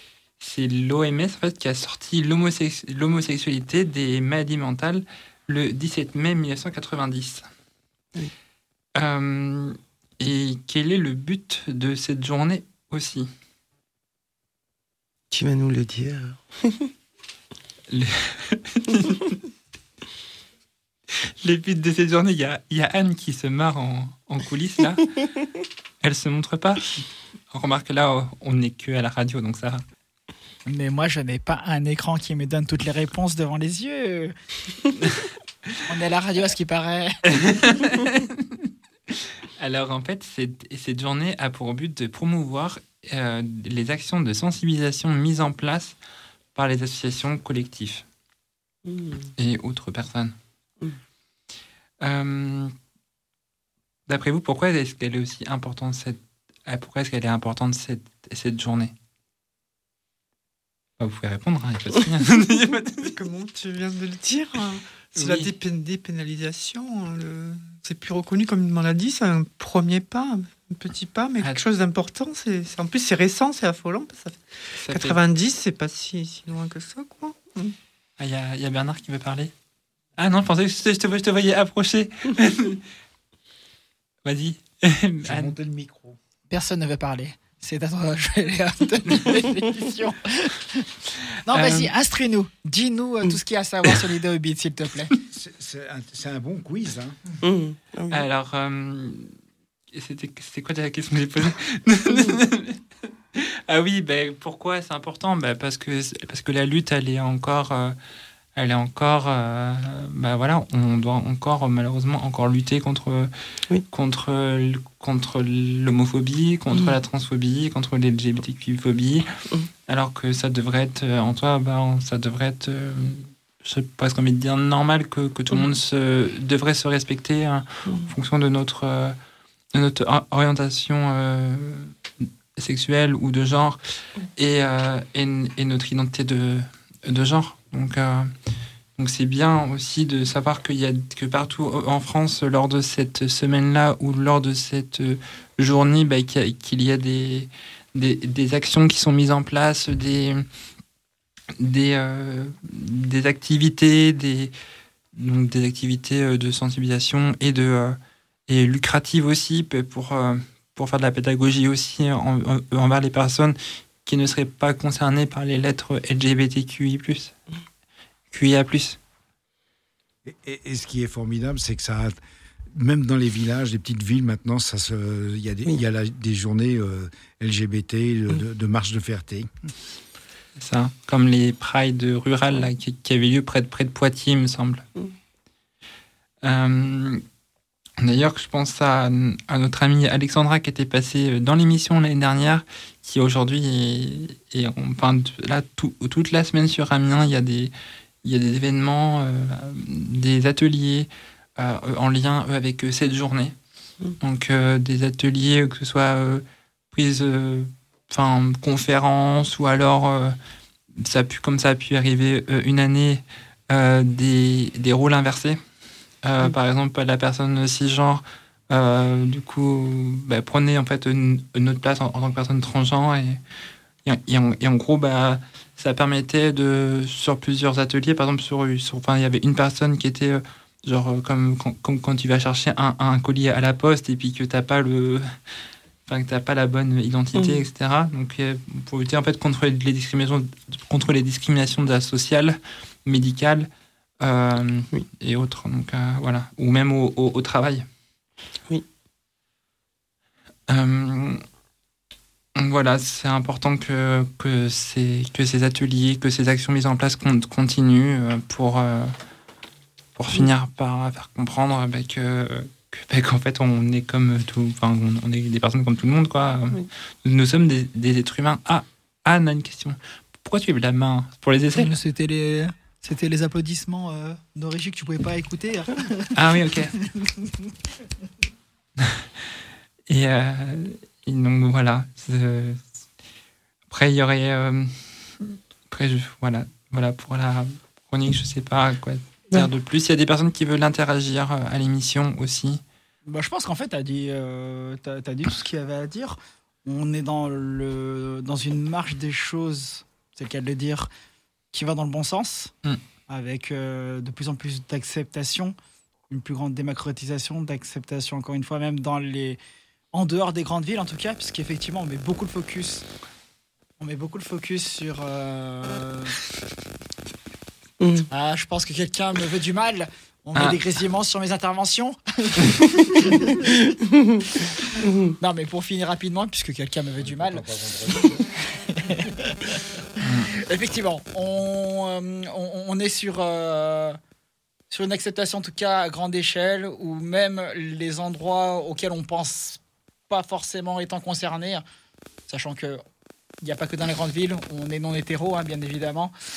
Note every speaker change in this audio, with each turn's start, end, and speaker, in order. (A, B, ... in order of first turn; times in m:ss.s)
0:00.4-0:07.4 A
0:09.0-0:13.3 A
0:15.3-0:16.9 B
0:17.9-0:19.4 A
0:21.4-0:25.0 A
0:26.0-0:29.8 A
0:30.7-0:34.3 C
0:35.9-0:37.2 C
0:37.4-0:38.4 A
0:39.6-0:46.0 A
0:46.5-0:48.0 A
0:48.8-0:49.3 B
0:49.4-0:50.3 A
0:52.0-0:52.7 A
0:54.1-0:58.9 A
1:01.0-1:03.0 A
1:02.9-1:17.7 D
1:05.1-1:05.5 A
1:14.8-1:15.2 A
1:18.2-1:19.5 A
1:20.2-1:22.8 A
1:24.2-1:25.5 A
1:25.2-1:26.2 E
1:26.5-1:30.8 C
1:31.4-1:35.1 C
1:31.5-1:31.9 A
1:35.3-1:37.2 E
1:37.4-1:38.2 B
1:38.1-1:39.4 A
1:39.9-1:42.8 A
1:43.3-1:47.9 A
1:48.6-1:53.3 A
1:53.9-1:59.2 A
1:59.9-2:09.2 A
2:09.7-2:12.0 A
2:12.6-2:13.8 A
2:14.3-2:18.3 A
2:19.0-2:30.4 A
2:31.6-2:34.5 A
2:35.1-2:47.3 A
2:48.3-2:49.0 A
2:50.2-2:52.2 E
2:52.7-2:59.5 E
3:00.6-3:04.8 A
3:06.4-3:07.2 A
3:08.0-3:17.7 A
3:18.2-3:23.5 A
3:24.2-3:30.4 A
3:30.9-3:35.6 A
3:36.2-3:43.4 A
3:44.0-3:55.3 A
3:56.1-4:03.7 A
3:57.3-3:57.6 B
4:04.2-4:07.8 A
4:10.7-4:11.4 A
4:12.6-4:19.2 A
4:20.2-4:31.9 A
4:31.7-4:36.3 C
4:36.3-4:36.9 A
4:39.0-4:39.2 A
4:40.1-4:42.8 A
4:43.9-4:52.8 A
4:53.3-5:01.1 C
5:01.7-5:02.7 C
5:03.3-5:05.7 C
5:06.3-5:09.6 C
5:10.1-5:13.0 C
5:14.0-5:16.4 C
5:18.0-5:18.3 B
5:18.3-5:23.5 C
5:25.0-5:25.3 B
5:25.4-5:28.3 C
5:27.2-5:28.4 E
5:28.9-5:29.4 C
5:30.2-5:30.5 A
5:30.7-5:34.2 C
5:34.9-5:41.8 C
5:42.5-5:43.0 C
5:43.6-5:46.3 C